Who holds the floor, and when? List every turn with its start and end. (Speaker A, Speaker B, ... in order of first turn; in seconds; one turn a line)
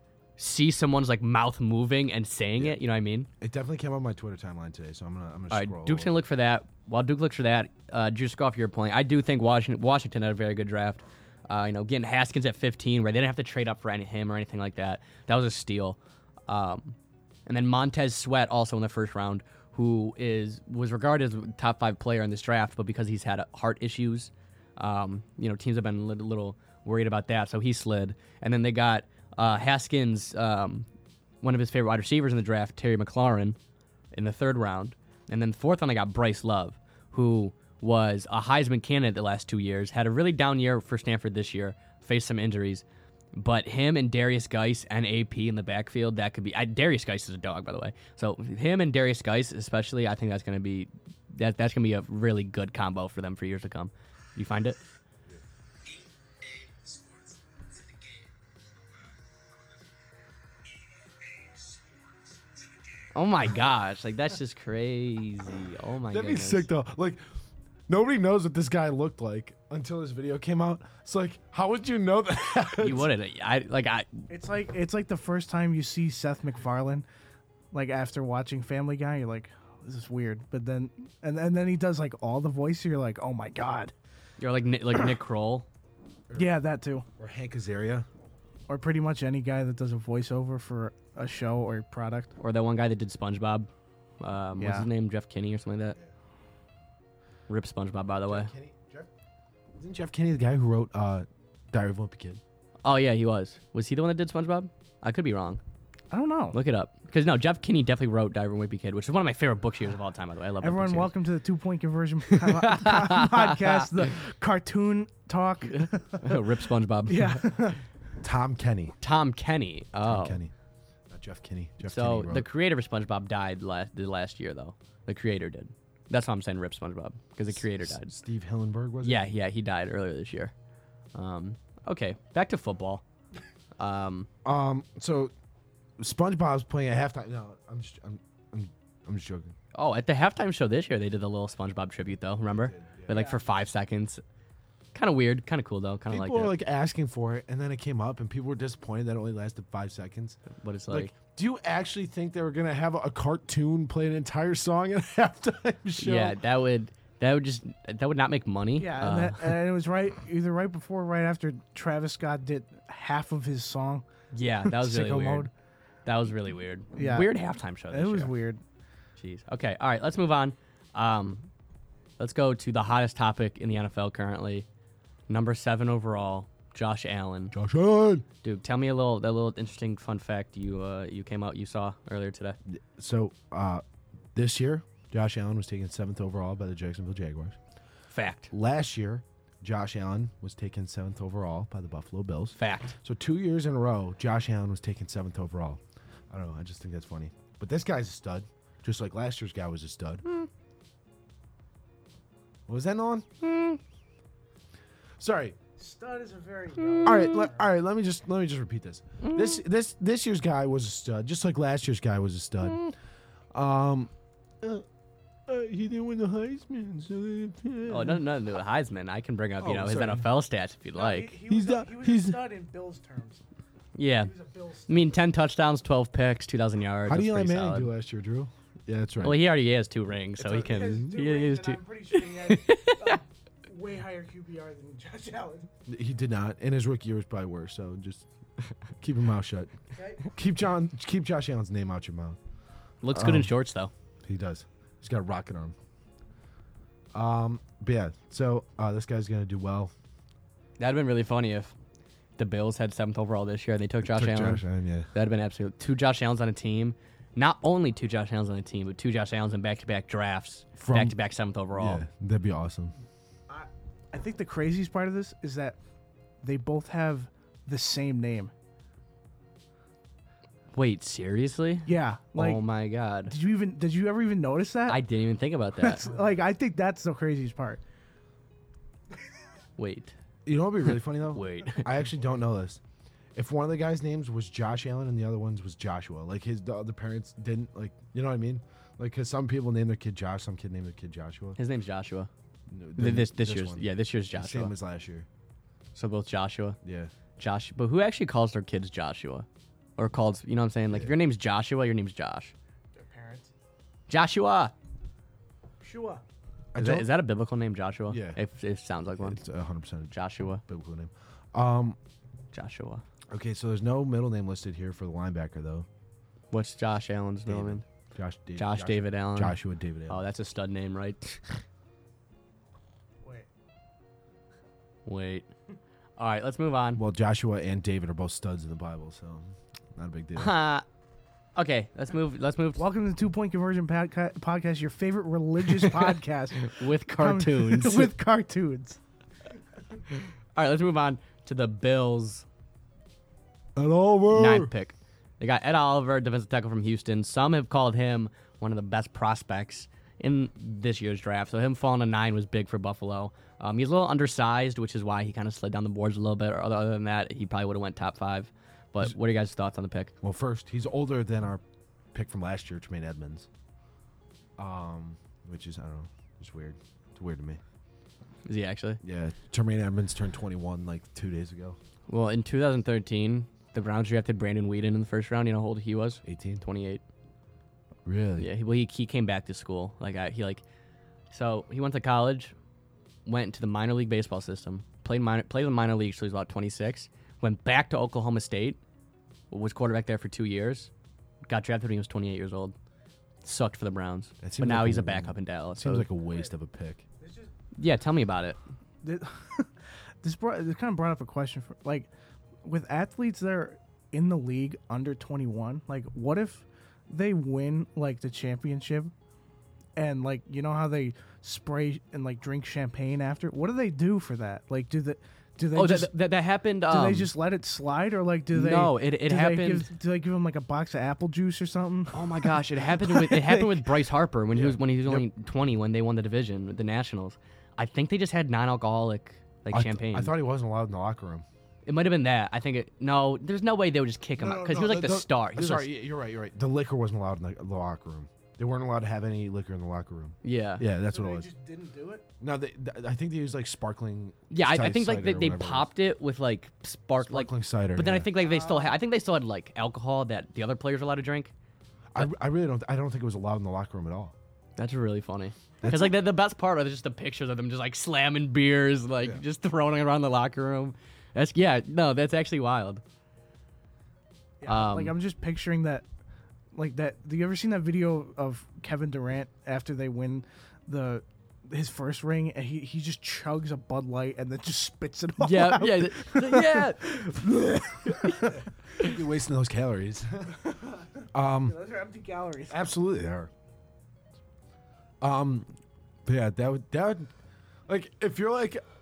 Speaker A: 0.4-3.3
Speaker B: 3.4-6.1
Speaker A: 5.5-30.9
Speaker A: 31.4-33.5
Speaker A: 34.1-54.8
Speaker A: 63.1-66.7
Speaker B: 66.1-67.2
Speaker B: 67.9-73.1
Speaker A: 72.8-74.2
Speaker C: 74.3-77.0
Speaker C: 77.7-83.9
Speaker A: 84.4-85.7
Speaker C: 86.3-87.0
Speaker B: 87.2-88.1
Speaker C: 88.7-92.3
Speaker A: 92.4-93.7
Speaker A: 94.2-96.0
Speaker C: 94.6-94.9
Speaker A: 97.5-98.5
Speaker B: 98.3-99.1
Speaker B: 99.7-102.4
Speaker A: 102.8-105.6
Speaker C: 106.1-106.6
Speaker A: 106.5-111.1
Speaker C: 110.6-116.4
Speaker A: 112.3-113.8
Speaker A: 115.7-117.5
Speaker C: 117.1-117.8
Speaker B: 118.2-119.0
Speaker A: 119.0-120.4
Speaker B: 120.0-120.5
Speaker B: 121.1-122.5
Speaker A: 121.8-128.2
Speaker B: 127.5-129.2
Speaker A: 129.0-130.5
Speaker A: 131.1-133.0
Speaker A: 133.8-134.3
Speaker B: 134.4-135.3
Speaker B: 136.0-139.5
Speaker A: 139.7-144.2
Speaker B: 142.5-143.2
Speaker C: 143.1-143.4
Speaker A: 144.9-146.5
Speaker B: 146.1-156.4
Speaker A: 150.5-151.1
Speaker A: 156.0-159.6
Speaker C: 158.8-164.1
Speaker A: 164.3-165.5
Speaker C: 164.6-165.5
Speaker A: 166.1-168.3
Speaker C: 166.9-167.3
Speaker C: 167.9-168.6
Speaker A: 169.2-171.5
Speaker A: 172.2-174.7
Speaker A: 175.3-177.5
Speaker B: 177.5-178.2
Speaker A: 178.4-182.6
Speaker B: 182.7-183.8
Speaker B: 184.3-187.6
Speaker A: 188.1-188.5
Speaker B: 188.5-200.4
Speaker A: 192.6-192.9
Speaker B: 202.7-203.4
Speaker A: 203.5-203.8
Speaker B: 205.2-205.6
Speaker C: 205.8-207.7
Speaker B: 207.0-212.8
Speaker A: 209.2-209.5
Speaker B: 213.5-214.8
Speaker B: 215.5-218.2
Speaker A: 217.9-221.3
Speaker B: 219.6-220.3
Speaker C: 220.9-223.4
Speaker B: 221.5-222.4
Speaker A: 223.9-224.3
Speaker C: 224.2-225.2
Speaker A: 224.9-227.9
Speaker B: 227.1-229.4
Speaker A: 229.2-233.2
Speaker C: 230.4-235.7
Speaker B: 235.9-238.3
Speaker B: 239.0-242.4
Speaker C: 240.0-240.3
Speaker A: 243.0-243.9
Speaker B: 243.1-243.5
Speaker B: 244.2-245.7
Speaker B: 247.1-249.9
Speaker A: 250.8-251.7
Speaker A: 252.4-262.1
Speaker B: 254.0-255.1
Speaker B: 260.8-261.1
Speaker B: 261.7-262.9
Speaker C: 263.5-265.8
Speaker C: 266.4-268.5
Speaker A: 270.7-273.3
Speaker C: 271.9-272.6
Speaker C: 273.3-275.0
Speaker A: 274.9-276.1
Speaker C: 275.8-277.8
Speaker B: 276.0-276.4
Speaker A: 279.8-280.1
Speaker B: 280.4-282.8
Speaker A: 280.8-281.9
Speaker B: 283.3-291.6
Speaker A: 291.6-292.3
Speaker B: 292.7-295.3
Speaker A: 293.0-294.7
Speaker A: 295.9-296.8
Speaker B: 296.8-297.1
Speaker A: 297.4-299.4
Speaker A: 300.0-302.5
Speaker C: 302.9-303.5
Speaker A: 304.1-304.7
Speaker C: 305.8-306.2
Speaker B: 306.7-307.1
Speaker A: 306.8-309.4
Speaker B: 308.1-308.4
Speaker B: 309.2-312.0
Speaker A: 310.1-310.6
Speaker A: 312.5-313.0
Speaker B: 313.3-315.9
Speaker A: 316.5-317.8
Speaker B: 317.4-320.2
Speaker A: 318.6-321.5
Speaker A: 325.1-325.5
Speaker A: 326.2-327.0
Speaker B: 326.9-330.5
Speaker A: 330.4-330.8
Speaker A: 331.6-332.8
Speaker C: 332.8-339.0
Speaker A: 336.6-338.1
Speaker A: 340.1-342.4
Speaker B: 343.8-344.7
Speaker A: 344.3-360.1
Speaker B: 360.2-363.5
Speaker B: 364.6-367.6
Speaker A: 368.4-369.0
Speaker B: 369.0-371.8
Speaker A: 372.1-377.0
Speaker B: 376.2-376.6
Speaker B: 378.1-378.5
Speaker A: 378.4-380.6
Speaker A: 381.3-382.5
Speaker A: 383.2-388.8
Speaker A: 389.5-390.9
Speaker A: 391.5-392.7
Speaker A: 393.4-396.1
Speaker B: 394.4-397.1
Speaker C: 397.2-397.5
Speaker A: 397.7-398.6
Speaker C: 399.0-402.1
Speaker C: 402.6-409.1
Speaker C: 409.9-416.1
Speaker A: 415.7-417.3
Speaker C: 416.9-423.9
Speaker A: 418.5-419.9
Speaker A: 422.1-430.3
Speaker B: 424.5-425.2
Speaker B: 429.7-431.4
Speaker A: 431.9-435.9
Speaker B: 434.4-441.5
Speaker A: 440.4-440.8
Speaker C: 441.1-442.2
Speaker B: 442.4-445.9
Speaker A: 444.5-451.5
Speaker B: 447.2-448.3
Speaker C: 448.4-449.0
Speaker B: 452.1-454.3
Speaker A: 454.8-463.0
Speaker B: 455.8-456.1
Speaker C: 464.6-466.0
Speaker A: 464.7-465.1
Speaker C: 466.7-478.6
Speaker A: 475.4-479.1
Speaker B: 479.0-480.6
Speaker C: 480.6-482.8
Speaker B: 481.3-481.8
Speaker B: 482.7-483.5
Speaker B: 485.2-485.7
Speaker B: 486.2-487.3
Speaker B: 487.9-488.8